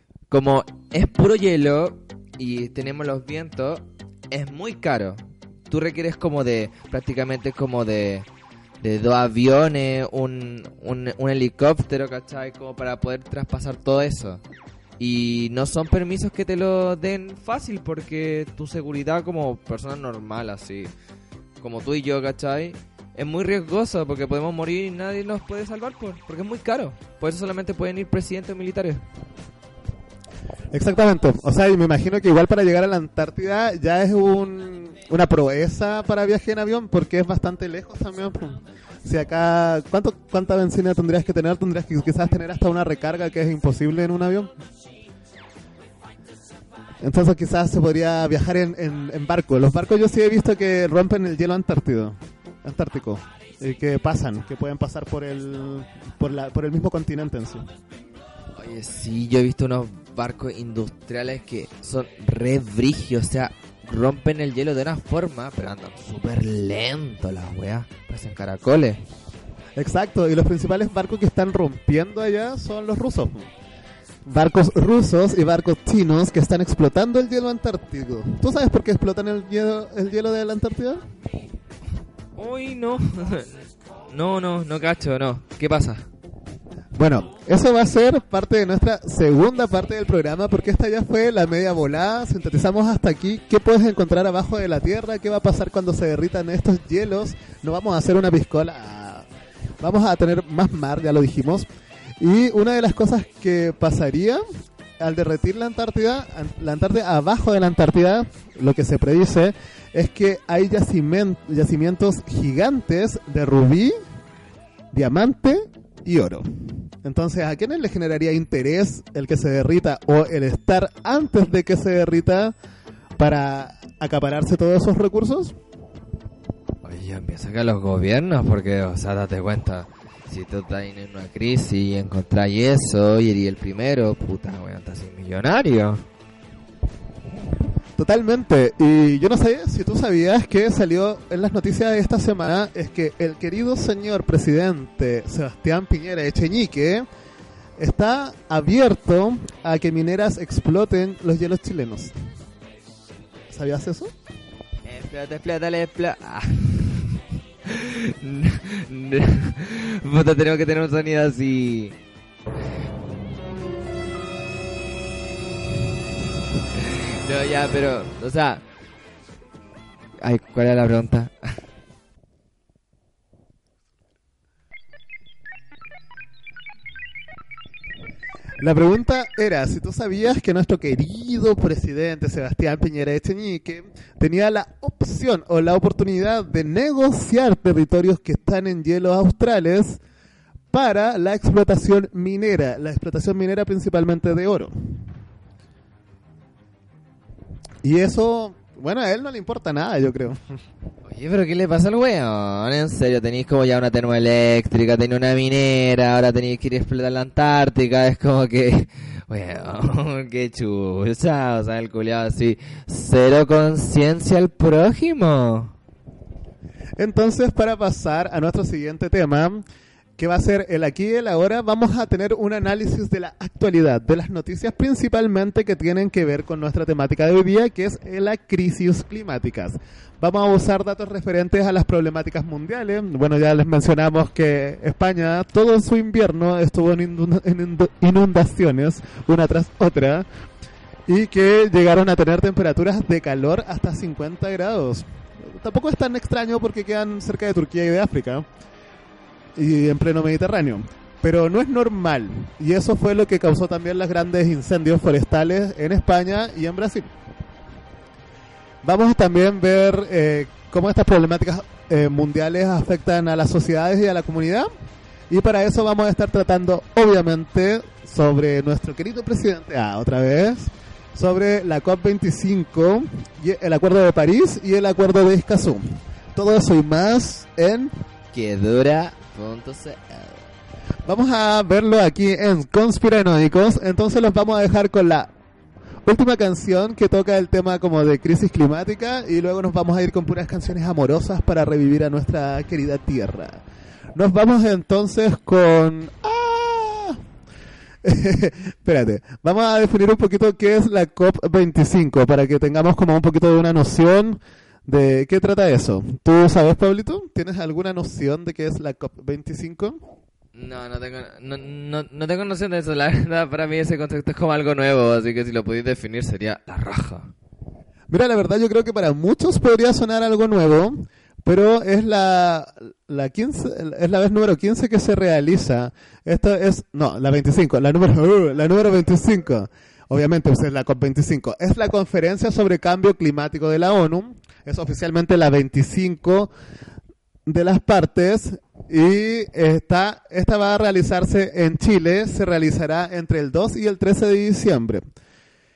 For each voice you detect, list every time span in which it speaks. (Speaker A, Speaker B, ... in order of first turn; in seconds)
Speaker A: 0.3-8.3, 8.8-14.4, 15.0-20.9, 21.6-29.0, 58.6-69.0, 82.4-86.1, 126.8-136.0, 154.9-162.0, 166.8-168.7, 170.2-171.6, 201.1-215.7, 278.3-280.4, 310.6-317.3
Speaker B: 30.7-44.5, 47.0-57.7, 69.8-73.5, 74.2-81.0, 87.0-99.3, 99.8-101.7, 102.2-104.4, 105.0-114.0, 114.9-122.5, 123.2-125.6, 138.0-147.1, 147.8-152.2, 153.5-154.1, 178.6-190.0, 190.7-195.0, 197.8-200.6, 217.0-219.7, 220.2-240.3, 241.1-248.5, 249.6-257.1, 258.8-264.7, 265.3-278.0, 281.1-285.3, 286.1-293.6, 294.1-297.2, 298.0-310.0, 318.1-336.5, 337.5-345.1